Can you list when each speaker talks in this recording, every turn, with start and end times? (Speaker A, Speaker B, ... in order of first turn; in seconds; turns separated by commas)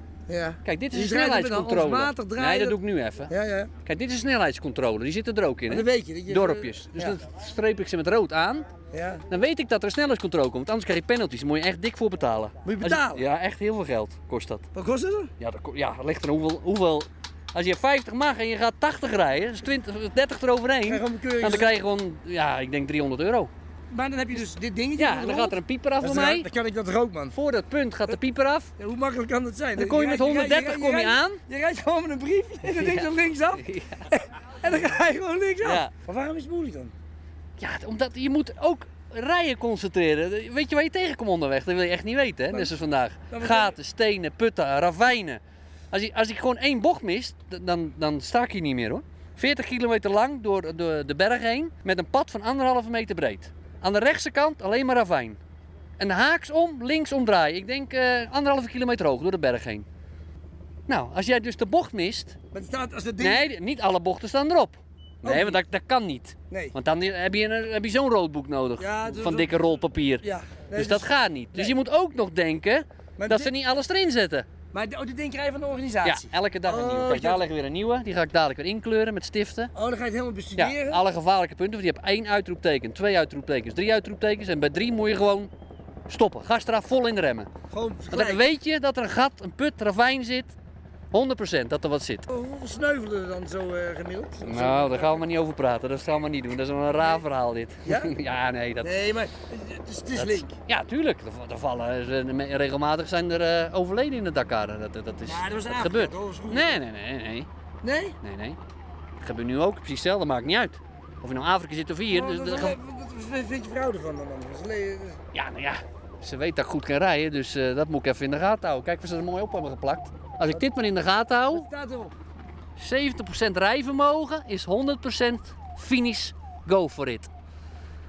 Speaker A: 0.3-2.8, Speaker B: 0.6-3.3, Speaker A: 3.3-3.7, Speaker B: 3.9-8.7, Speaker A: 5.7-7.2, Speaker A: 8.9-9.2, Speaker B: 9.3-14.7, Speaker A: 12.6-13.2, Speaker A: 14.7-15.3, Speaker B: 15.4-23.5, Speaker A: 20.9-21.8, Speaker A: 23.9-27.4, Speaker B: 25.0-26.5, Speaker B: 27.3-28.7, Speaker A: 28.8-36.9, Speaker B: 29.8-31.4, Speaker B: 32.6-34.1, Speaker B: 35.6-35.9, Speaker B: 37.6-55.4, Speaker A: 43.3-43.8, Speaker B: 56.0-59.9, Speaker B: 60.9-62.4, Speaker A: 62.5-63.5, Speaker B: 63.2-74.5, Speaker A: 65.2-65.6, Speaker A: 66.5-66.8, Speaker A: 68.8-71.7, Speaker A: 73.2-73.5, Speaker A: 74.7-77.5, Speaker B: 76.0-79.7, Speaker A: 79.8-81.0, Speaker B: 80.6-85.5, Speaker B: 86.1-87.5, Speaker A: 87.7-88.4, Speaker B: 88.1-90.5, Speaker B: 91.1-92.3, Speaker A: 92.3-95.2, Speaker B: 94.4-99.0, Speaker A: 97.8-98.1, Speaker A: 98.8-100.5, Speaker B: 100.1-107.5, Speaker A: 105.2-106.8, Speaker A: 107.8-108.2, Speaker B: 108.2-108.6, Speaker B: 109.2-112.8, Speaker A: 112.1-115.2, Speaker B: 115.3-121.7, Speaker A: 120.5-120.8, Speaker A: 121.5-122.2, Speaker B: 122.8-127.3